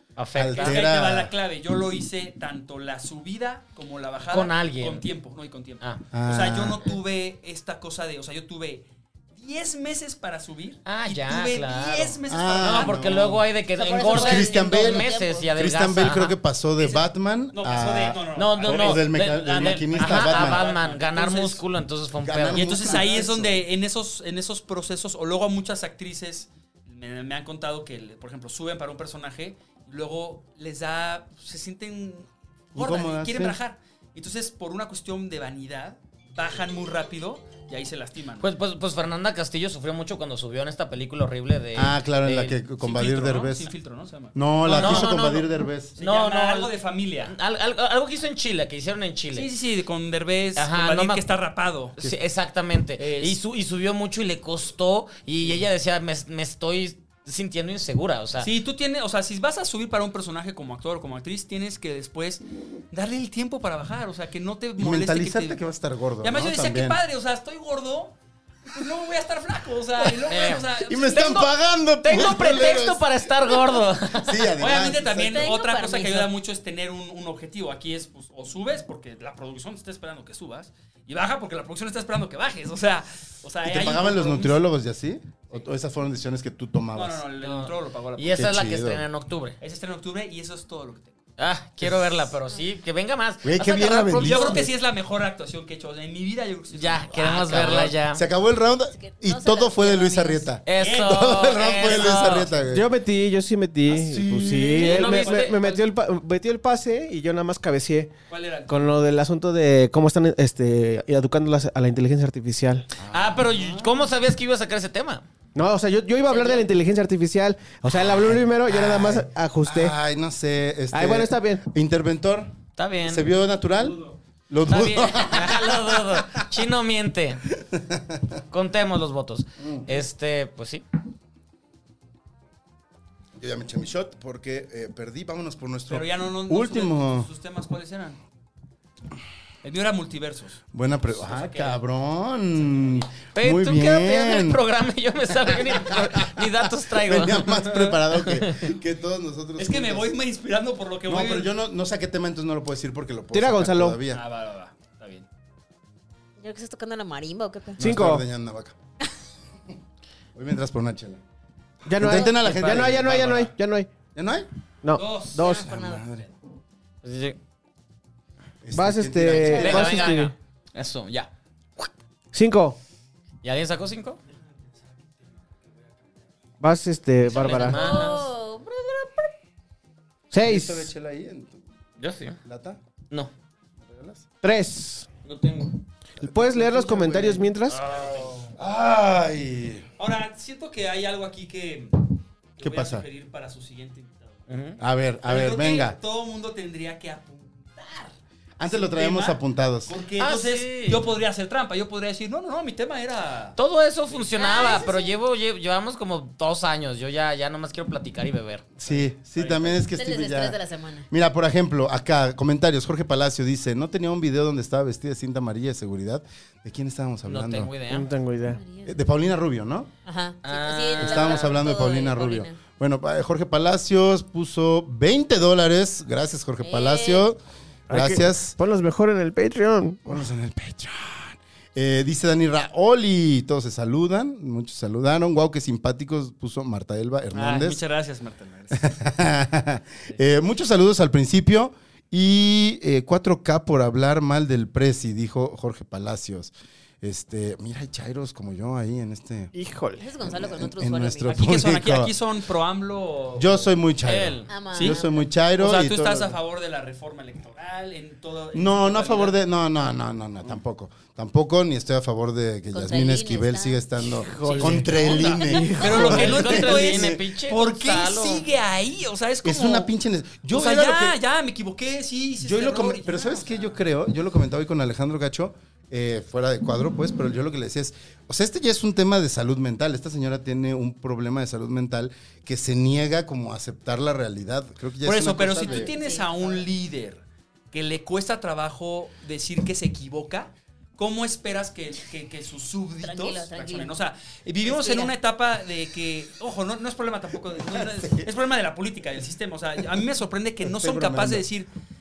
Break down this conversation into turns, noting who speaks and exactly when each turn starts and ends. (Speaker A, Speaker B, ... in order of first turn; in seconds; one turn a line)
Speaker A: 0.1-0.8
Speaker B: 0.3-1.3
Speaker C: 0.5-13.1
Speaker A: 4.3-5.0
Speaker B: 6.1-6.9
Speaker A: 10.8-16.4
Speaker B: 12.3-13.5
Speaker D: 13.7-15.5
Speaker B: 14.1-20.6
Speaker C: 16.8-21.6
Speaker A: 18.3-23.2
Speaker B: 22.2-23.6
Speaker C: 22.5-38.5
Speaker B: 32.7-33.6
Speaker A: 38.4-42.6
Speaker B: 41.7-43.7
Speaker C: 42.8-45.3
Speaker B: 44.3-46.0
Speaker A: 44.6-46.7
Speaker C: 46.0-47.3
Speaker A: 47.2-49.5
Speaker C: 49.3-52.0
Speaker A: 50.5-51.2
Speaker A: 52.0-58.5
Speaker C: 53.0-53.4
Speaker C: 58.4-65.6
Speaker B: 64.8-67.0
Speaker C: 66.2-68.1
Speaker C: 68.7-71.5
Speaker A: 70.2-70.7
Speaker B: 70.9-75.5
Speaker A: 72.0-74.5
Speaker C: 74.6-84.6
Speaker D: 75.2-76.3
Speaker B: 83.6-87.2
Speaker C: 86.9-88.5
Speaker A: 87.4-89.6
Speaker B: 88.3-89.0
Speaker C: 89.6-91.2
Speaker A: 91.4-94.6
Speaker B: 93.4-94.7
Speaker C: 94.1-97.9
Speaker A: 96.7-98.2
Speaker B: 97.5-102.9
Speaker D: 98.9-100.5
Speaker A: 100.7-102.5
Speaker C: 100.8-101.9
Speaker E: 102.7-108.1
Speaker B: 103.9-104.8
Speaker A: 104.6-105.6
Speaker C: 104.7-105.9
Speaker C: 108.3-108.9
Speaker E: 108.7-112.9
Speaker B: 113.0-114.1
Speaker A: 113.1-115.2
Speaker E: 115.5-119.9
Speaker D: 116.3-116.7
Speaker B: 118.7-122.5
Speaker E: 120.9-121.6
Speaker A: 122.8-123.3
Speaker B: 123.0-126.2
Speaker A: 124.7-127.5
Speaker B: 127.7-128.2
Speaker A: 128.5-130.8
Speaker B: 129.6-129.9
Speaker B: 133.3-137.3
Speaker C: 135.9-138.2
Speaker C: 139.6-141.8
Speaker B: 140.7-144.6
Speaker C: 142.5-143.1
Speaker A: 143.3-148.7
Speaker B: 145.8-150.1
Speaker C: 149.6-151.5
Speaker B: 151.1-154.2
Speaker E: 153.3-154.0
Speaker C: 154.1-155.3
Speaker D: 156.4-157.8
Speaker B: 157.8-158.7
Speaker E: 157.8-158.2
Speaker B: 160.3-161.2
Speaker E: 161.8-163.9
Speaker B: 161.9-163.5
Speaker A: 162.1-163.2
Speaker B: 164.1-164.5
Speaker E: 164.8-165.7
Speaker C: 165.0-165.4
Speaker D: 165.3-166.1
Speaker B: 165.4-166.2
Speaker A: 167.0-167.4
Speaker B: 168.6-170.0
Speaker E: 168.7-170.3
Speaker A: 169.4-171.9
Speaker E: 172.3-172.8
Speaker A: 173.4-174.2
Speaker E: 176.6-177.8
Speaker A: 177.2-178.2
Speaker D: 177.5-179.3
Speaker E: 180.3-180.9
Speaker B: 180.4-181.6
Speaker A: 182.0-182.4
Speaker B: 182.4-182.8
Speaker B: 183.8-184.2
Speaker E: 184.4-185.1
Speaker A: 185.2-185.8
Speaker B: 186.2-187.5
Speaker E: 186.2-187.8
Speaker A: 187.7-188.5
Speaker B: 188.5-189.9
Speaker C: 190.0-194.4
Speaker B: 192.6-193.1
Speaker A: 194.5-194.8
Speaker B: 194.8-196.0
Speaker C: 195.2-198.1
Speaker B: 198.6-199.9
Speaker C: 198.7-203.6
Speaker A: 200.2-201.1
Speaker A: 203.6-208.7
Speaker D: 204.3-205.2
Speaker B: 208.8-210.6
Speaker C: 208.8-209.8
Speaker D: 209.9-211.1
Speaker B: 211.1-217.7
Speaker A: 217.3-218.1
Speaker E: 217.9-218.6
Speaker D: 218.5-218.9
Speaker B: 218.8-219.9
Speaker D: 220.0-222.6
Speaker A: 220.4-221.6
Speaker B: 221.0-228.5
Speaker D: 226.6-227.3
Speaker E: 227.9-230.0
Speaker B: 230.0-237.8
Speaker C: 237.3-238.9
Speaker B: 238.7-249.5
Speaker E: 249.5-250.0
Speaker D: 250.0-251.4
Speaker B: 250.2-252.1
Speaker C: 251.3-253.7
Speaker B: 253.4-256.4
Speaker A: 254.0-254.5
Speaker D: 254.5-255.2
Speaker C: 255.6-259.3
Speaker B: 258.5-267.2
Speaker D: 262.7-263.9
Speaker E: 264.2-266.6
Speaker A: 264.4-265.1
Speaker C: 265.8-269.9
Speaker A: 265.8-268.4
Speaker B: 269.4-271.2
Speaker C: 270.5-273.8
Speaker B: 272.4-285.9
Speaker C: 285.0-301.7
Speaker D: 285.6-286.6
Speaker D: 293.0-293.9
Speaker D: 294.6-295.1
Speaker B: 297.7-298.3
Speaker B: 300.6-301.4